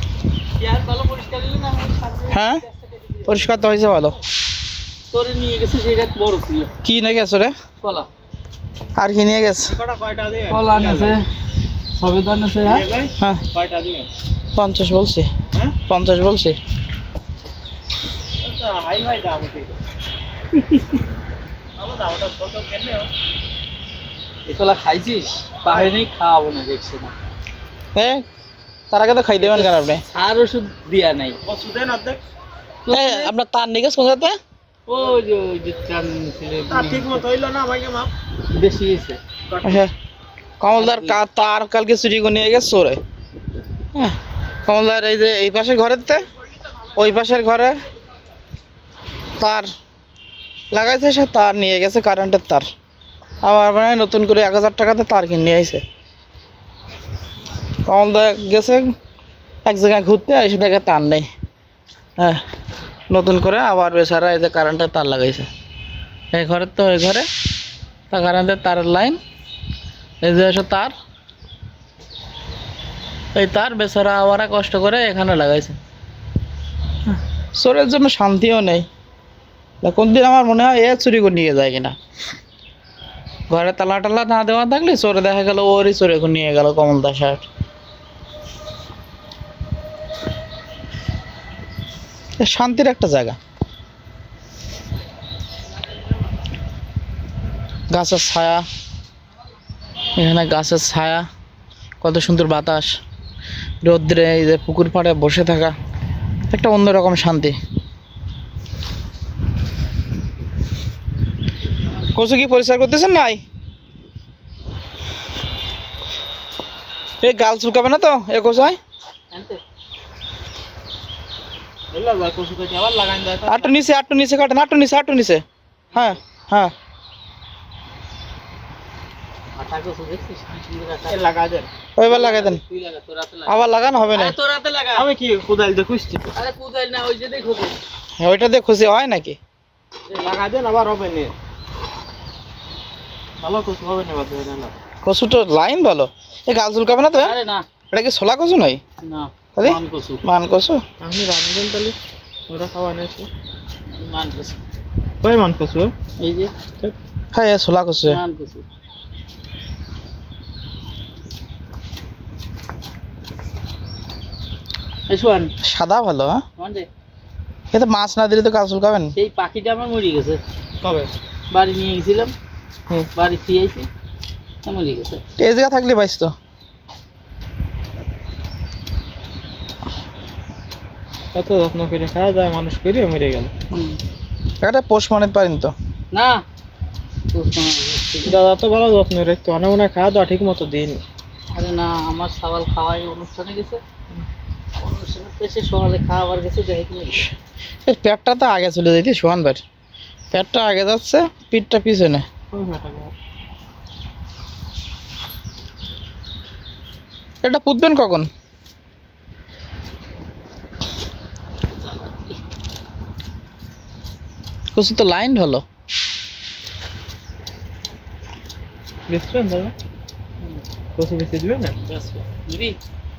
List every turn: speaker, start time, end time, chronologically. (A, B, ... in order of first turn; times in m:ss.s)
0:00.6-0:03.2 A
0:02.3-0:02.6 B
0:03.2-0:04.1 B
0:05.1-0:06.7 A
0:06.8-0:07.5 B
0:07.8-0:08.1 A
0:09.0-0:09.8 B
0:09.6-0:11.2 C
0:10.5-0:11.2 A
0:11.9-0:12.9 A
0:12.6-0:14.1 C
0:13.2-0:13.4 B
0:14.5-0:15.3 B
0:15.8-0:16.6 B
0:18.4-0:19.7 C
0:20.5-0:20.8 A
0:21.8-0:23.1 C
0:24.5-0:27.1 A
0:27.9-0:28.2 B
0:28.9-0:30.0 B
0:29.4-0:31.4 A
0:31.5-0:32.2 C
0:32.9-0:33.3 A
0:32.9-0:34.3 B
0:34.9-0:37.3 A
0:36.7-0:38.1 C
0:38.5-0:39.2 A
0:39.5-0:39.8 C
0:39.6-0:39.9 B
0:40.6-0:43.0 B
0:40.7-0:41.2 A
0:43.9-0:46.2 B
0:46.9-0:47.8 B
0:49.4-0:49.7 B
0:50.7-0:52.6 B
0:53.4-0:55.8 B
0:57.8-0:58.9 B
0:59.6-1:01.3 B
1:03.1-1:05.5 B
1:06.3-1:07.2 B
1:08.1-1:09.2 B
1:10.2-1:10.9 B
1:13.3-1:15.8 B
1:17.5-1:18.8 B
1:19.8-1:21.9 B
1:23.5-1:27.5 B
1:32.4-1:33.4 B
1:37.9-1:38.6 B
1:40.2-1:41.2 B
1:42.0-1:42.9 B
1:43.8-1:45.7 B
1:46.5-1:47.5 B
1:52.1-1:53.4 B
1:57.2-1:58.8 B
1:59.3-1:59.6 A
2:01.9-2:03.7 C
2:03.5-2:06.7 B
2:09.6-2:11.2 A
2:11.1-2:11.7 C
2:12.0-2:12.6 B
2:12.0-2:13.6 A
2:13.4-2:14.3 B
2:14.1-2:15.1 A
2:15.0-2:16.3 C
2:16.3-2:17.8 A
2:18.2-2:19.4 B
2:20.1-2:21.3 C
2:23.4-2:24.7 C
2:25.0-2:27.3 B
2:27.1-2:27.6 A
2:27.9-2:28.8 B
2:29.0-2:30.2 A
2:29.6-2:30.8 B
2:31.0-2:32.0 C
2:32.5-2:33.3 C
2:34.0-2:34.6 A
2:35.2-2:35.9 C
2:36.2-2:36.5 A
2:37.3-2:38.2 B
2:38.0-2:38.6 A
2:45.1-2:45.5 A
2:45.6-2:46.4 B
2:46.6-2:46.9 A
2:47.7-2:49.1 B
2:49.1-2:50.4 A
2:50.8-2:51.1 C
2:51.5-2:52.3 A
2:53.1-2:53.9 A
2:54.6-2:55.2 A
2:55.4-2:56.3 B
3:01.3-3:03.5 C
3:03.7-3:04.0 A
3:04.6-3:05.7 B
3:06.1-3:06.4 A
3:07.3-3:08.4 A
3:08.2-3:11.0 C
3:11.5-3:13.8 A
3:14.8-3:17.3 A
3:17.8-3:19.6 B
3:20.3-3:22.2 B
3:22.5-3:23.1 C
3:27.4-3:28.3 B
3:34.7-3:35.6 B
3:39.1-3:39.7 C
3:41.0-3:41.7 C
3:41.8-3:42.8 A